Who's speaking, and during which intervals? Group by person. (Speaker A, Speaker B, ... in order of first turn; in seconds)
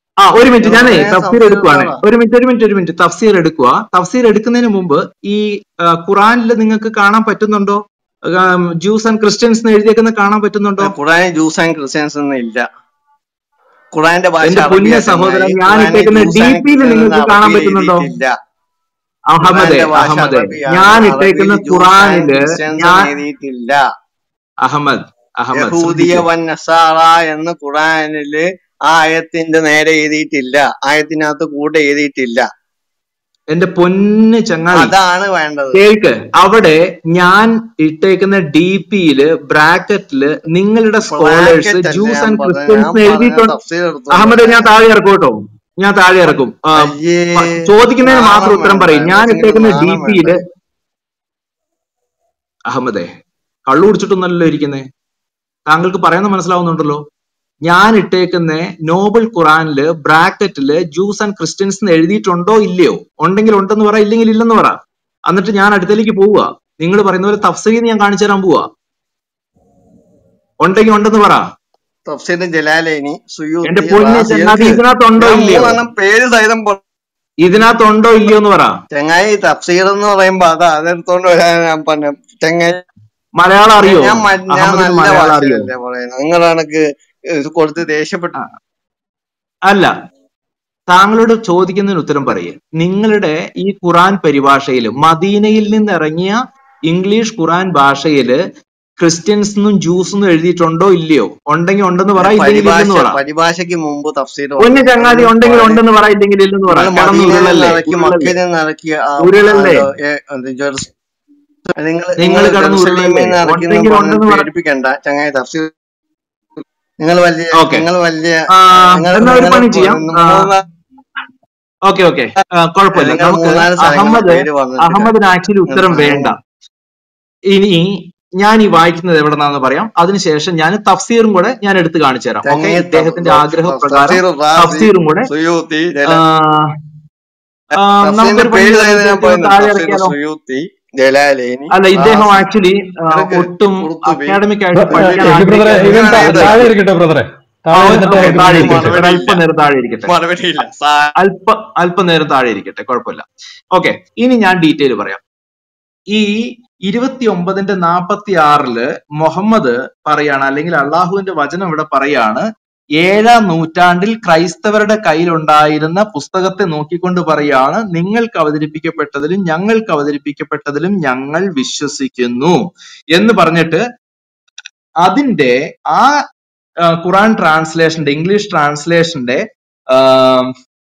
Speaker A: 0.2-10.9, 14.4-18.1, 19.3-23.1, 24.6-26.2, 33.5-34.9, 35.7-43.5, 44.1-50.4, 52.7-53.1, 53.7-54.9, 55.7-57.0, 57.6-68.7, 70.6-71.5, 73.6-75.8, 77.4-78.8, 83.3-85.7, 89.7-89.9, 90.9-96.3, 96.9-98.4, 99.0-103.2, 104.6-108.3, 109.2-109.8, 112.2-114.5, 117.6-117.8, 118.5-120.5, 121.9-126.3, 127.5-135.3, 136.1-136.7, 137.7-140.1, 141.7-146.6, 147.7-150.1, 151.2-155.2, 156.1-162.4, 163.0-172.6, 173.1-173.8, 175.0-176.2, 176.8-180.5
Speaker B: 0.6-2.0, 10.8-12.6, 13.9-18.3, 19.4-23.8, 25.5-32.5, 34.7-35.8, 41.1-44.7, 46.8-50.4, 72.1-76.8, 78.9-82.8, 83.8-88.3, 102.2-105.8, 106.7-110.9, 111.8-115.7, 117.0-120.6, 122.9-125.1, 125.7-126.3, 132.4-136.2, 138.0-142.5, 143.1-146.7, 148.1-149.4, 150.1-151.1
Speaker C: 144.7-149.0